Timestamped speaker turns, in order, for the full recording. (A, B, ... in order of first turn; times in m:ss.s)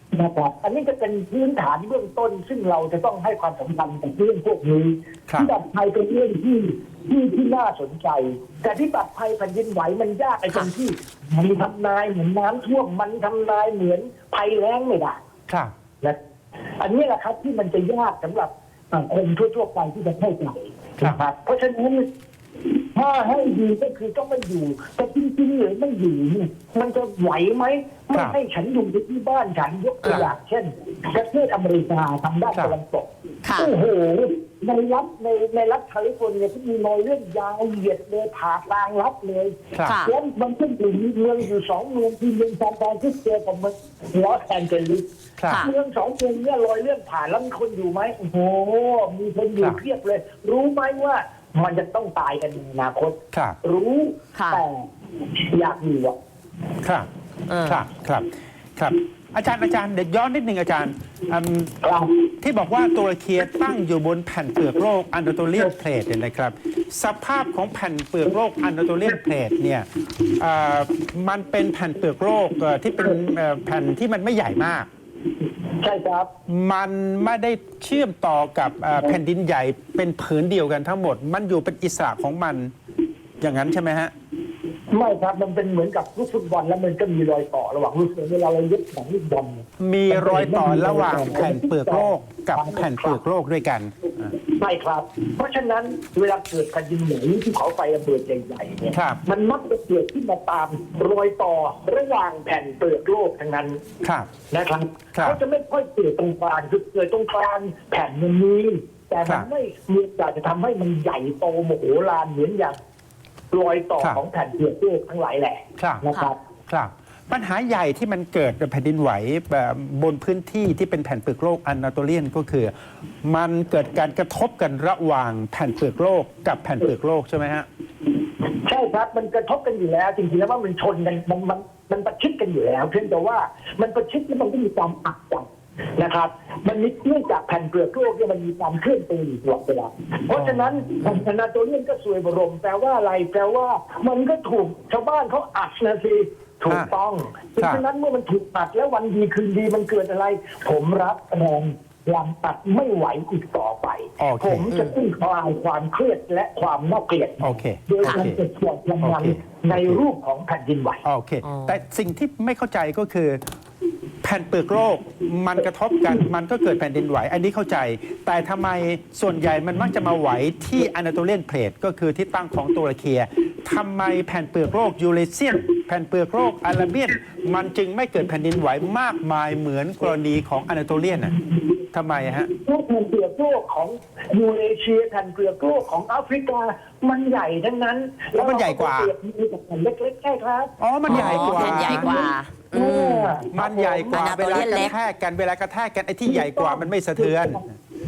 0:00.1-0:15.2 A
0:16.8-0:22.1 A
0:22.9-0:54.9 A
0:30.0-0:30.3 B
0:33.4-0:33.7 B
0:39.7-0:40.0 C
0:39.8-0:40.1 B
0:45.4-0:45.6 C
0:53.3-0:53.6 C
0:54.3-0:54.6 B
0:55.5-0:56.2 A
0:56.8-0:57.1 C
0:57.5-0:57.8 B
0:57.6-1:01.8 C
1:01.8-1:02.3 A
1:02.4-1:14.9 C
1:15.8-1:16.3 A
1:16.5-1:22.7 C
1:23.4-1:24.1 C
1:24.9-1:33.2 A
1:29.8-1:34.1 C
1:34.3-1:43.8 A
1:38.9-1:39.2 C
1:44.0-1:44.3 C
1:44.5-1:52.8 A
1:53.5-1:56.4 A
1:55.8-1:56.0 C
1:56.7-2:07.6 C
2:08.6-2:41.0 A
2:20.3-2:20.7 C
2:27.6-2:27.8 C
2:34.2-2:34.7 C
2:37.4-2:38.4 C
2:38.0-2:38.3 B
2:39.0-2:40.0 C
2:41.0-2:43.4 C
2:41.4-2:41.8 B
2:44.2-3:01.3 C
3:01.9-3:02.5 C
3:02.5-3:14.8 A
3:08.4-3:09.1 C
3:10.8-3:12.2 C
3:11.1-3:13.4 B
3:13.5-3:17.6 C
3:14.1-3:14.9 B
3:16.2-3:17.7 A